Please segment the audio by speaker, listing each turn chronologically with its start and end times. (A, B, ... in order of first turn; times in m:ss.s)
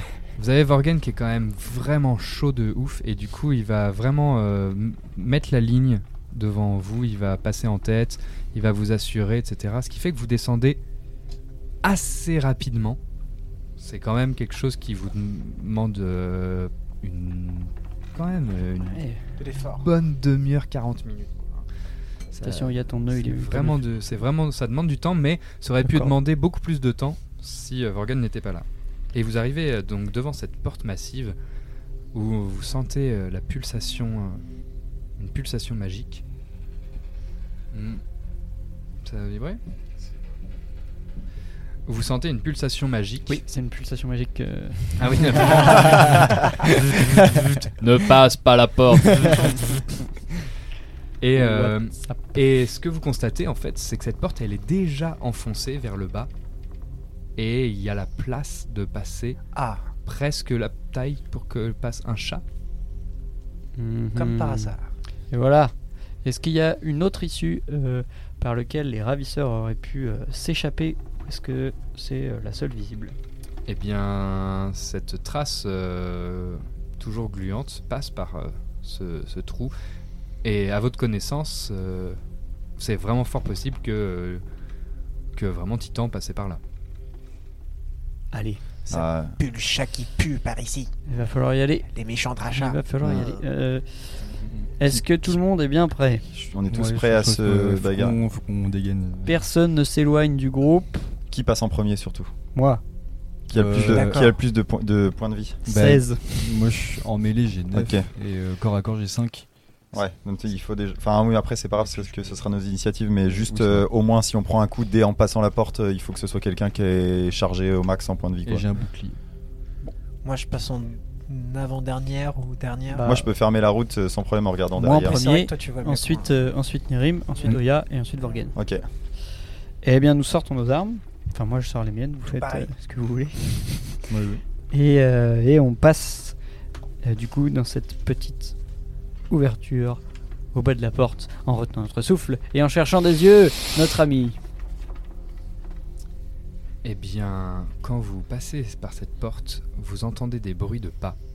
0:00.4-0:10.8 A
0:11.8-0:13.0 A
0:13.8-0:19.0 A
0:18.9-0:19.2 B
0:19.4-0:19.9 C
0:19.8-0:21.7 A
0:22.3-0:31.4 A
0:22.4-0:23.8 B
0:25.8-0:26.1 B
0:32.1-0:34.4 A
0:35.2-0:36.2 A
0:37.7-0:38.0 A
0:39.0-0:39.6 A
0:41.9-0:43.4 A
0:43.3-0:47.5 B
0:45.0-0:49.8 A
0:51.2-0:56.3 A
0:51.4-0:52.2 B
0:57.4-0:59.4 A
0:59.6-0:59.9 C
1:00.1-1:02.4 A
1:03.8-1:04.7 B
1:04.1-1:04.9 C
1:05.3-1:13.2 B
1:13.7-1:19.7 A
1:20.4-1:22.2 A
1:22.8-1:24.4 A
1:25.4-1:26.6 A
1:28.3-1:28.6 B
1:28.9-1:30.9 C
1:28.9-1:29.4 D
1:31.1-1:31.9 B
1:31.9-1:33.4 C
1:32.5-1:34.2 B
1:34.3-1:34.7 E
1:34.8-1:36.3 B
1:34.9-1:35.2 D
1:36.3-1:38.2 D
1:36.7-1:39.5 E
1:39.2-1:41.1 B
1:41.3-1:42.3 D
1:42.6-1:42.8 B
1:43.5-1:45.6 D
1:43.5-1:44.2 E
1:43.9-1:44.3 C
1:45.7-1:49.5 E
1:45.7-1:46.6 B
1:47.7-1:48.1 D
1:49.9-1:58.6 D
1:51.8-1:52.4 E
1:53.3-1:53.9 E
1:58.4-1:59.2 E
2:00.2-2:03.2 C
2:02.9-2:03.3 B
2:03.0-2:05.2 D
2:04.8-2:08.6 B
2:04.9-2:06.5 C
2:08.6-2:08.9 D
2:09.8-2:14.1 B
2:12.3-2:12.7 C
2:14.1-2:14.4 D
2:14.7-2:16.4 B
2:17.0-2:18.6 B
2:19.3-2:20.0 B
2:20.5-2:24.4 B
2:26.8-2:31.2 A